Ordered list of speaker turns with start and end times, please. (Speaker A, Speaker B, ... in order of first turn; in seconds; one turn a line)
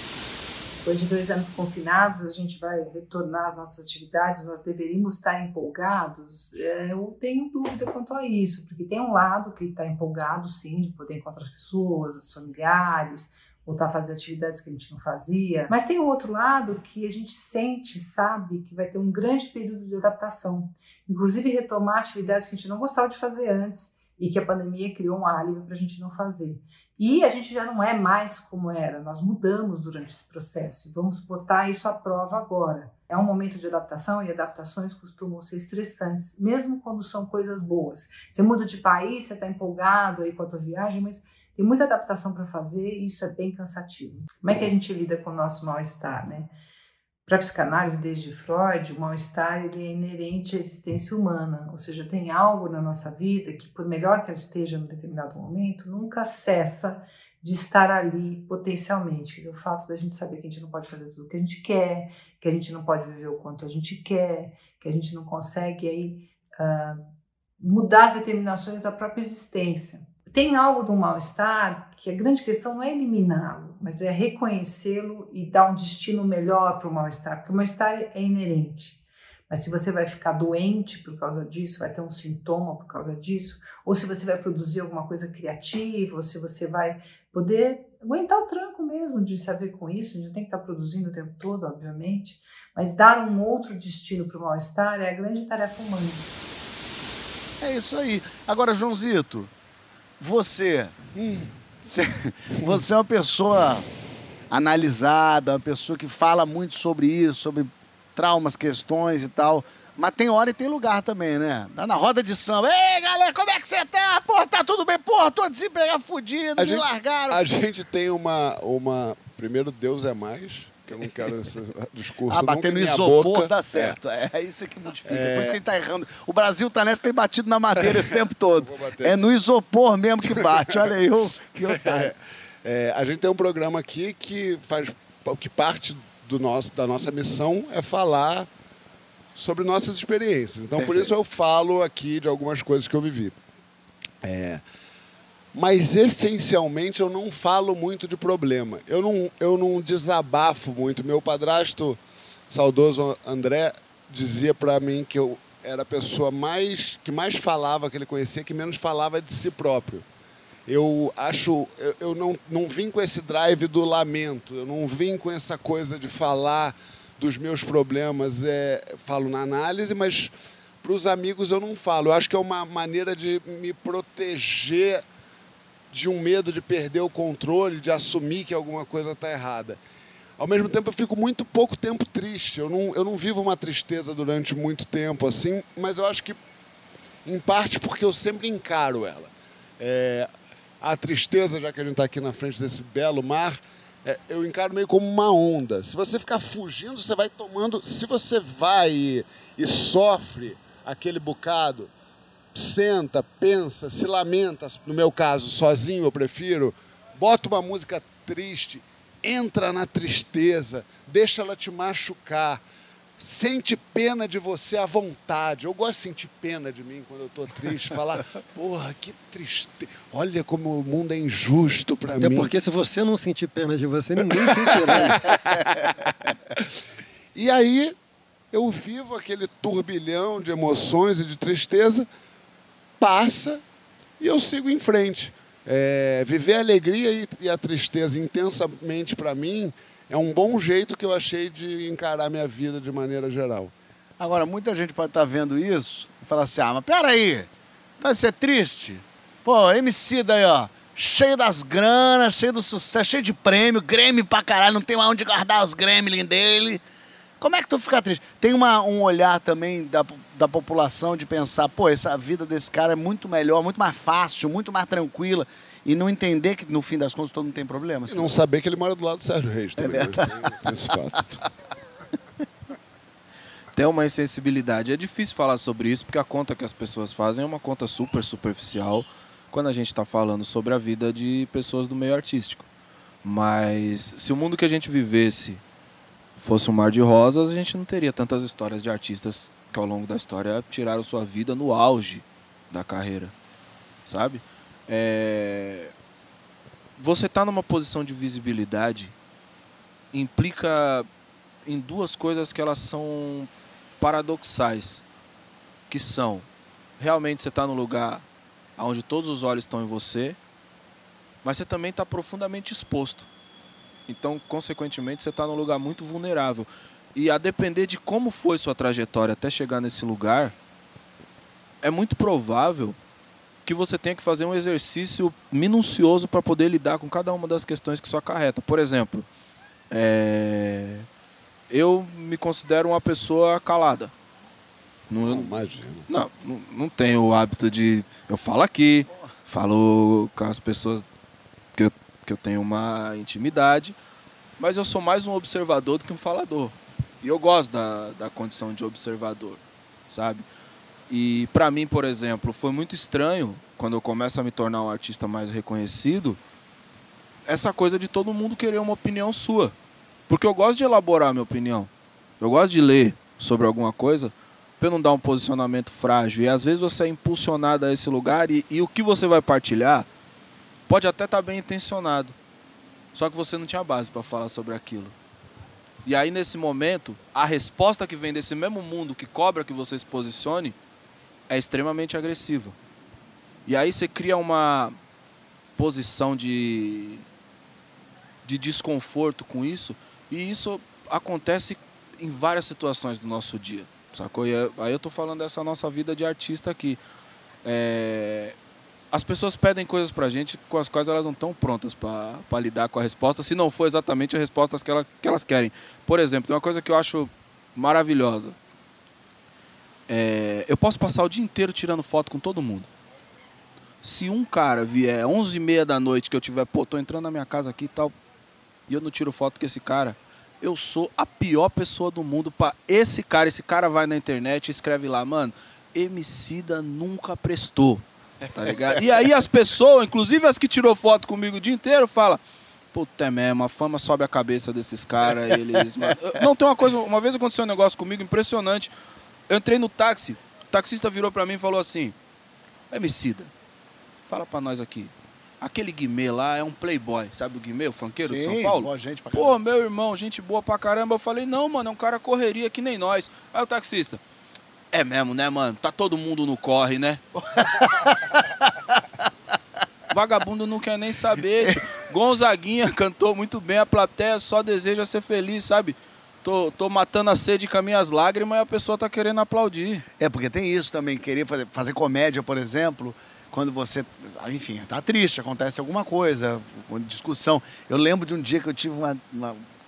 Speaker A: 0.8-46.5
Speaker A: 47.3-67.0
Speaker A: 67.6-96.3
Speaker B: 97.6-99.5
Speaker B: 100.2-100.9
Speaker C: 101.2-101.5
Speaker B: 101.8-103.9
Speaker B: 104.5-117.4
Speaker C: 116.6-124.0
Speaker B: 122.3-132.1
Speaker C: 125.1-125.6
Speaker C: 128.6-129.1
Speaker C: 130.6-130.8
Speaker C: 131.7-138.5
Speaker C: 139.4-143.3
Speaker B: 140.8-141.1
Speaker C: 144.2-144.6
Speaker C: 145.5-160.1
Speaker C: 160.7-175.0
Speaker C: 175.9-179.8
Speaker C: 180.4-186.4
Speaker C: 187.2-190.3
Speaker C: 190.8-201.9
Speaker C: 202.5-212.6
Speaker C: 213.2-222.5
Speaker D: 222.1-225.2
Speaker C: 224.7-226.6
Speaker C: 227.3-227.9
Speaker C: 228.5-232.1
Speaker C: 233.0-233.6
Speaker C: 234.2-243.7
Speaker B: 244.2-256.8
Speaker B: 257.4-268.4
Speaker C: 268.1-271.4
Speaker B: 269.8-270.2
Speaker E: 273.8-282.7
Speaker E: 283.2-285.6
Speaker E: 286.4-293.3
Speaker E: 294.1-295.9
Speaker E: 297.0-299.1
Speaker E: 300.1-301.1
Speaker E: 301.7-303.5
Speaker E: 304.0-305.0
Speaker E: 305.9-306.5
Speaker E: 307.0-308.2
Speaker E: 308.8-310.4
Speaker E: 311.4-313.3
Speaker E: 314.1-320.5
Speaker E: 321.8-323.0
Speaker E: 323.7-329.2
Speaker E: 329.9-331.1
Speaker E: 331.7-334.1
Speaker E: 335.1-335.5
Speaker C: 335.2-336.1
Speaker E: 336.1-341.1
Speaker E: 341.8-343.9
Speaker E: 344.6-350.4
Speaker E: 351.1-356.4
Speaker E: 357.5-359.8
Speaker E: 360.3-370.1
Speaker E: 370.9-372.4
Speaker E: 373.1-375.1
Speaker E: 376.1-380.8
Speaker E: 381.5-382.8
Speaker E: 383.7-385.0
Speaker E: 385.8-387.2
Speaker E: 388.4-397.0
Speaker E: 397.6-398.6
Speaker E: 399.1-408.6
Speaker E: 410.1-412.9
Speaker E: 414.0-418.1
Speaker E: 418.9-432.4
Speaker E: 432.9-438.9
Speaker E: 439.5-442.1
Speaker E: 442.9-443.5
Speaker E: 444.3-454.2
Speaker B: 448.2-449.6
Speaker E: 454.9-457.2
Speaker B: 457.4-458.8
Speaker E: 460.1-470.1
Speaker B: 470.2-479.6